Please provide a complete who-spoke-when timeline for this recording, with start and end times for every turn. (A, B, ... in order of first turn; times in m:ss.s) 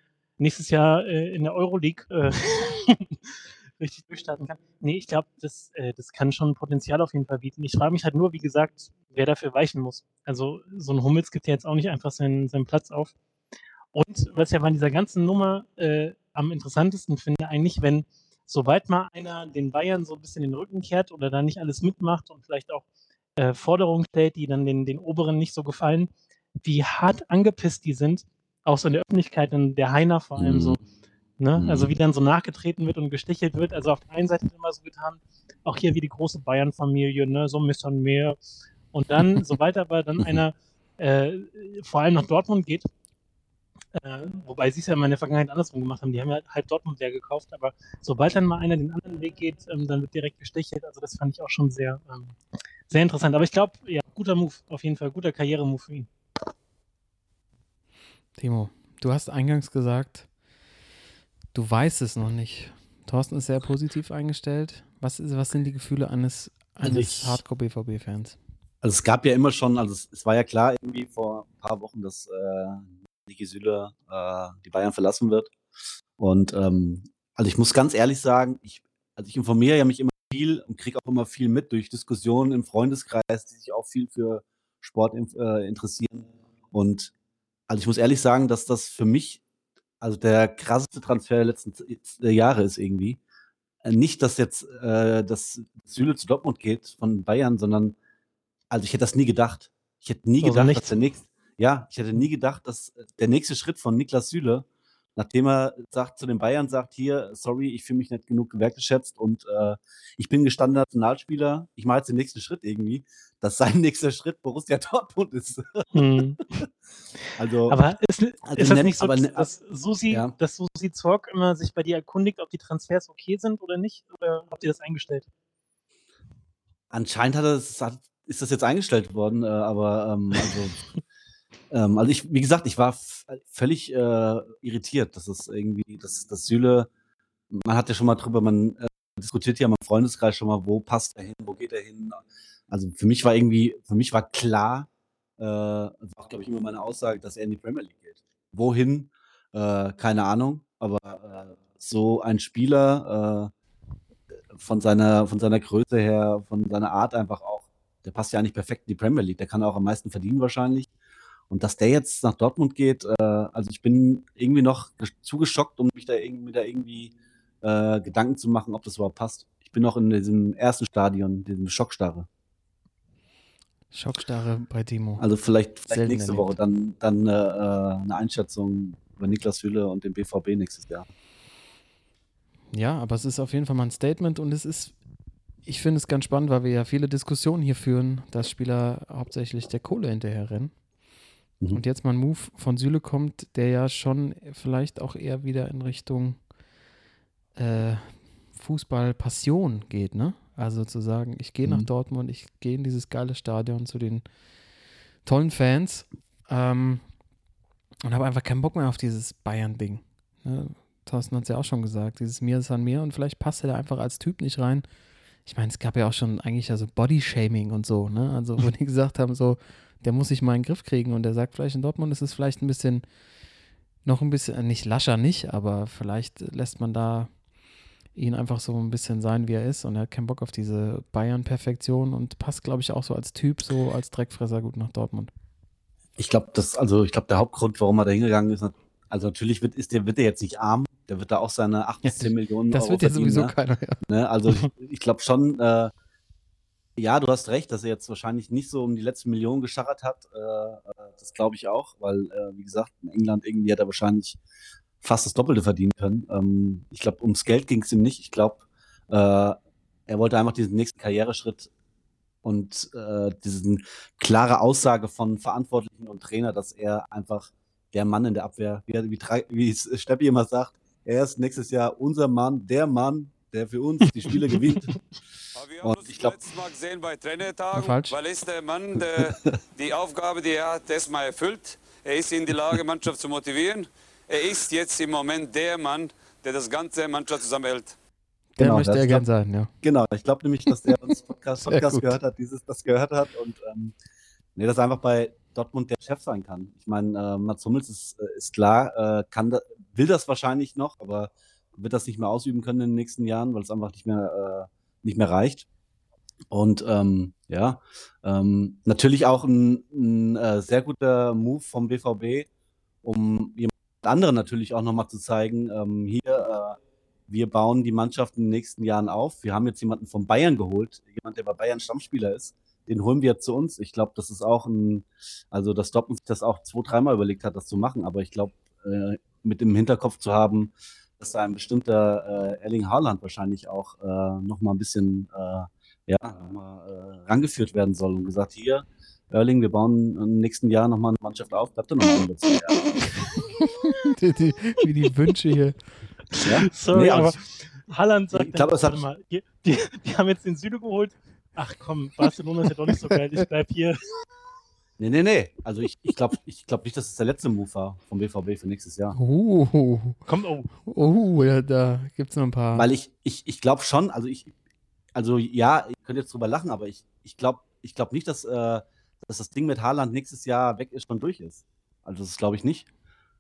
0:00.4-0:13.2 A
0:13.9-0:22.8 A
0:23.4-0:26.1 A
0:26.6-0:30.8 A
0:30.4-0:30.8 B
0:31.4-0:38.4 A
0:31.6-0:31.9 B
0:38.9-0:42.9 A
0:44.0-0:52.4 A
0:52.9-0:56.1 A
0:58.4-1:00.3 C
1:01.5-1:08.4 C
1:06.8-1:07.4 B
1:08.8-1:15.5 B
1:16.2-1:27.1 B
1:27.7-1:29.4 B
1:30.0-1:33.2 B
1:33.8-1:38.0 B
1:38.7-1:55.9 B
1:40.4-1:41.0 A
1:55.9-1:56.5 A
1:57.4-1:57.8 B
1:57.7-2:05.3 A
1:58.5-1:59.5 B
2:06.9-2:10.8 B
2:11.7-2:16.9 B
2:17.5-2:24.9 B
2:25.4-2:33.5 B
2:34.5-2:40.9 B
2:41.5-2:52.3 B
2:53.9-2:55.2 C
2:55.2-3:01.1 B
2:55.9-2:56.6 C
3:02.7-3:05.0 C
3:05.6-3:10.7 C
3:11.7-3:16.4 C
3:17.6-3:24.2 C
3:25.2-3:27.0 C
3:28.0-3:34.8 C
3:35.4-3:43.0 C
3:44.0-3:47.3 C
3:48.1-3:55.3 C
3:56.2-4:03.5 B
4:02.0-4:04.0 C
4:04.1-4:05.9 B
4:07.0-4:14.4 B
4:15.0-4:21.7 B
4:22.4-4:35.0 B
4:35.6-4:48.0 D
4:35.8-4:36.4 B
4:37.7-4:38.2 C
4:39.0-4:39.6 B
4:48.5-4:49.7 C
4:48.6-4:49.2 B
4:49.8-4:53.9 B
4:51.6-4:52.2 C
4:54.6-5:05.6 B
5:06.5-5:12.5 B
5:13.0-5:43.1 B
5:43.5-5:45.8 C
5:46.3-5:54.1 A
5:46.4-5:47.4 B
5:48.3-5:49.0 B
5:55.0-5:59.2 B
5:59.1-6:00.2 C
6:00.2-6:00.7 A
6:00.7-6:02.9 C
6:02.8-6:04.5 B
6:05.1-6:12.9 B